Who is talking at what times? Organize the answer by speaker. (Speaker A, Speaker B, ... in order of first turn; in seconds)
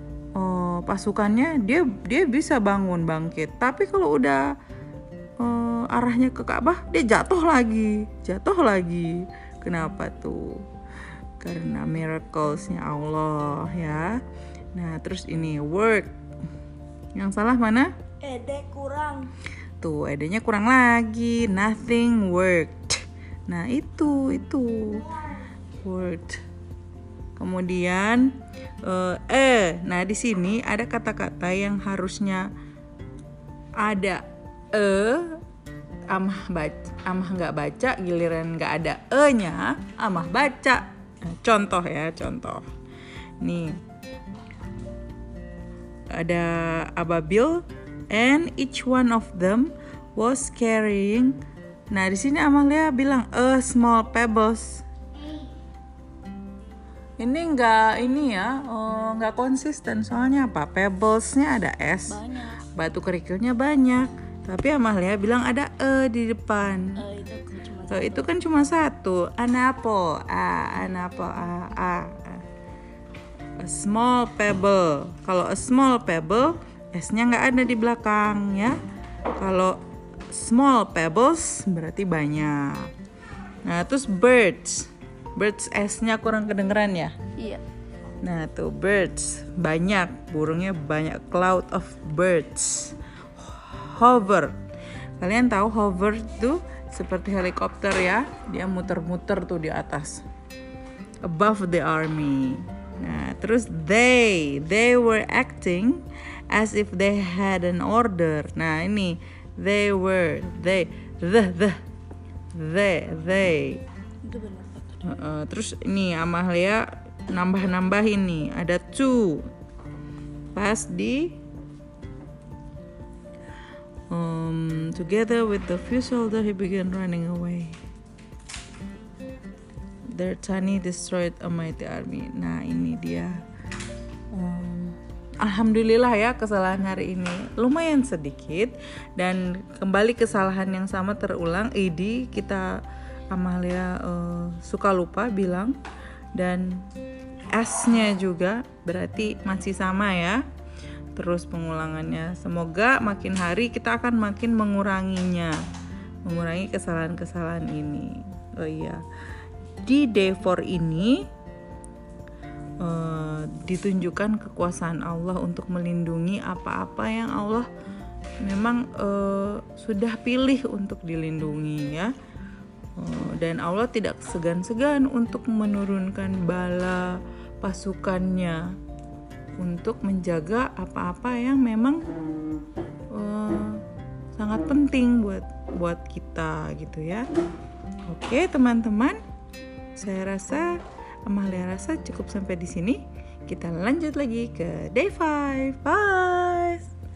Speaker A: 0.3-4.4, 5.4-10.7, 11.4-14.2, 14.7-16.1, 17.1-17.9, 19.8-25.2, 25.8-26.4, 27.4-32.5, 33.8-35.4, 36.1-42.6, 43.4-43.8, 46.1-51.4, 51.9-54.8, 57.2-67.0, 67.9-72.4, 73.6-78.8, 79.4-79.8, 80.3-82.9, 83.6-87.2, 88.2-94.5, 95.2-100.2, 101.2-111.8, 112.5-113.8, 115.0-119.5, 120.5-121.3, 124.1-127.8, 130.1-133.4, 134.3-142.8, 143.3-145.8, 146.3-146.8, 147.5-150.4, 151.1-155.5, 156.2-159.0, 159.8-161.2, 162.8-167.7, 168.4-172.1, 173.0-178.6, 179.6-182.0, 183.1-183.8, 184.3-187.3, 188.1-189.2, 189.9-196.9
Speaker B: 18.2-19.3, 62.1-62.6, 67.0-68.3, 87.4-87.6, 114.2-115.1